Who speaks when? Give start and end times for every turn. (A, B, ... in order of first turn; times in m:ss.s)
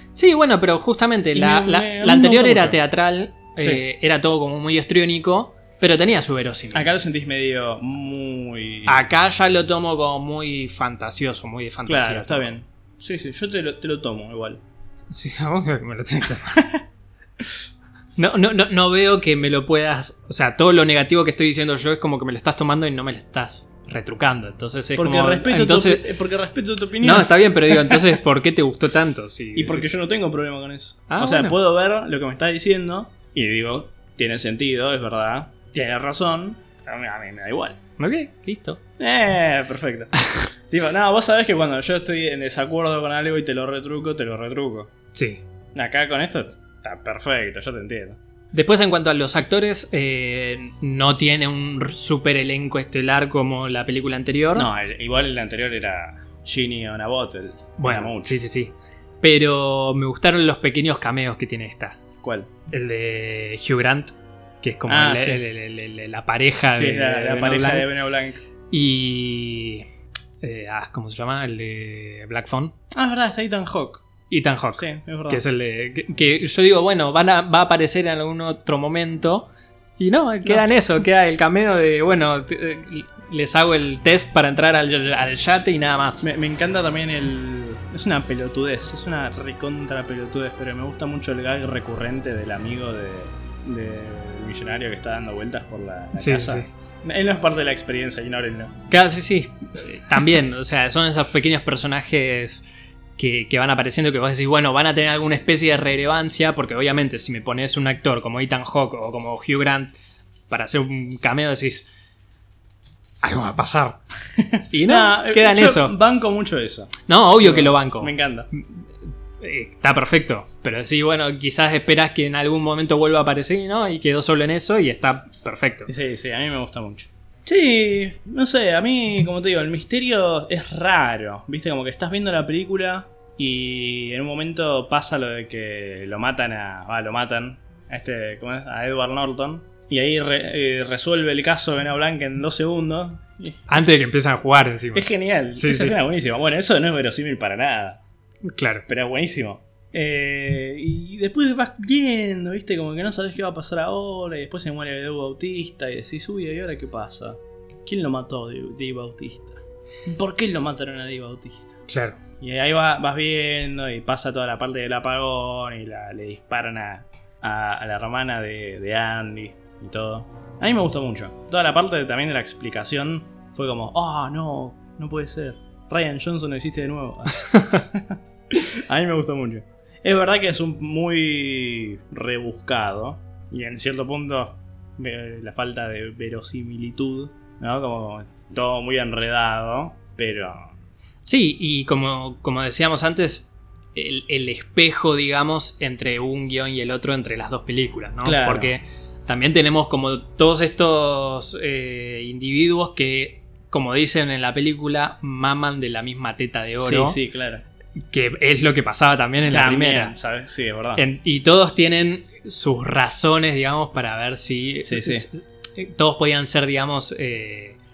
0:00.1-0:06.9 A
0:01.3-0:02.8 B
0:06.7-0:09.0 B
0:08.8-0:12.5 A
0:11.8-0:14.6 B
0:15.1-0:16.8 A
0:18.2-0:26.1 A
0:24.9-0:28.2 B
0:27.0-0:29.9 A
0:29.6-0:37.8 B
0:31.1-0:31.6 A
0:38.0-0:38.8 A
0:39.0-0:40.1 B
0:40.7-0:44.9 B
0:45.1-0:45.4 A
0:45.7-0:48.2 B
0:48.5-0:54.7 A
0:54.5-0:58.4 B
0:57.8-1:02.0 A
1:02.2-1:02.5 B
1:02.7-1:07.9 A
1:04.9-1:05.4 B
1:06.7-1:08.4 B
1:08.7-1:09.8 A
1:10.4-1:12.7 A
1:12.9-1:14.0 B
1:14.3-1:26.2 A
1:14.8-1:15.4 B
1:26.2-1:38.8 B
1:36.2-1:36.7 A
1:38.9-1:49.9 A
1:50.5-1:51.9 A
1:53.2-1:54.0 A
1:54.4-1:58.5 B
1:54.7-1:55.9 A
1:57.1-1:58.8 A
1:59.4-2:05.9 A
2:05.9-2:23.6 B
2:23.7-2:26.0 A
2:24.9-2:28.0 B
2:28.4-2:28.8 A
2:28.9-2:41.8 B
2:41.9-2:42.2 A
2:42.4-3:10.7 B
3:11.2-3:27.2 A
3:18.2-3:18.7 B
3:26.8-3:27.6 B
3:28.1-3:30.1 A
3:29.5-3:31.0 B
3:30.9-3:37.8 A
3:34.8-3:35.2 B